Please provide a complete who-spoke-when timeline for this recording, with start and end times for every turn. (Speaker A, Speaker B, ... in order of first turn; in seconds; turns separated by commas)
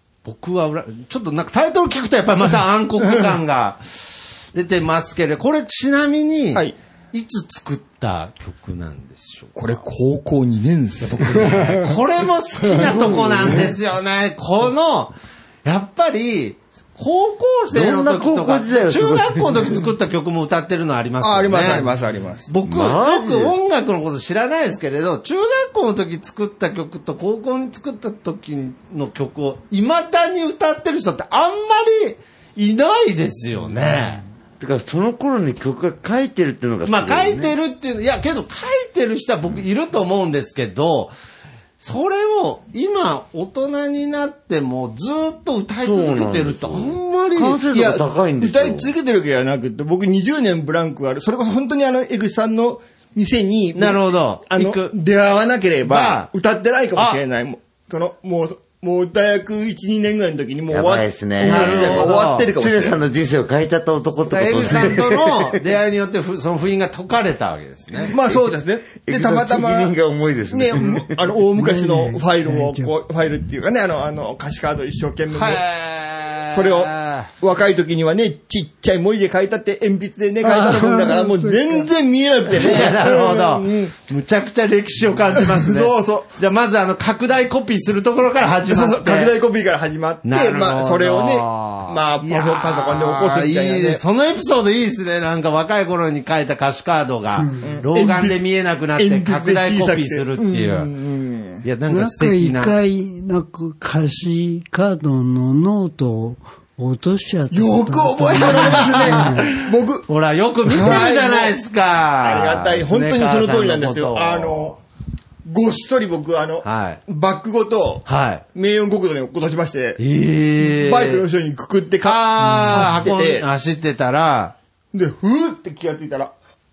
Speaker A: 0.2-9.6, Speaker B: 9.5-11.9, Speaker A: 11.2-21.9, Speaker B: 12.7-13.0, Speaker C: 12.8-13.4, Speaker C: 17.7-19.8, Speaker B: 21.2-22.5, Speaker A: 22.5-34.2, Speaker C: 22.6-23.6, Speaker C: 34.6-37.5, Speaker A: 36.8-41.1, Speaker A: 41.8-47.6, Speaker C: 45.8-48.9, Speaker B: 47.7-63.0, Speaker A: 53.7-54.9, Speaker A: 55.8-56.3, Speaker A: 56.9-57.2, Speaker C: 60.7-65.6, Speaker A: 61.4-62.5, Speaker A: 64.3-68.1, Speaker B: 68.0-69.9, Speaker C: 69.0-71.1, Speaker B: 70.5-75.6, Speaker D: 71.5-72.9, Speaker A: 75.3-77.3, Speaker B: 76.5-83.9, Speaker D: 80.4-81.9, Speaker A: 82.5-89.3, Speaker B: 85.4-86.3, Speaker B: 88.7-94.0, Speaker A: 90.2-100.9, Speaker B: 97.6-98.4, Speaker B: 99.0-101.6, Speaker A: 101.6-102.7, Speaker D: 101.9-109.5, Speaker B: 107.5-110.1, Speaker A: 108.4-109.5, Speaker A: 110.1-114.8, Speaker B: 110.6-111.6, Speaker B: 112.2-114.8, Speaker B: 115.4-120.0, Speaker A: 116.6-117.0, Speaker A: 118.0-118.4, Speaker A: 120.0-121.2, Speaker B: 120.7-123.5, Speaker A: 122.0-124.5, Speaker B: 124.9-126.3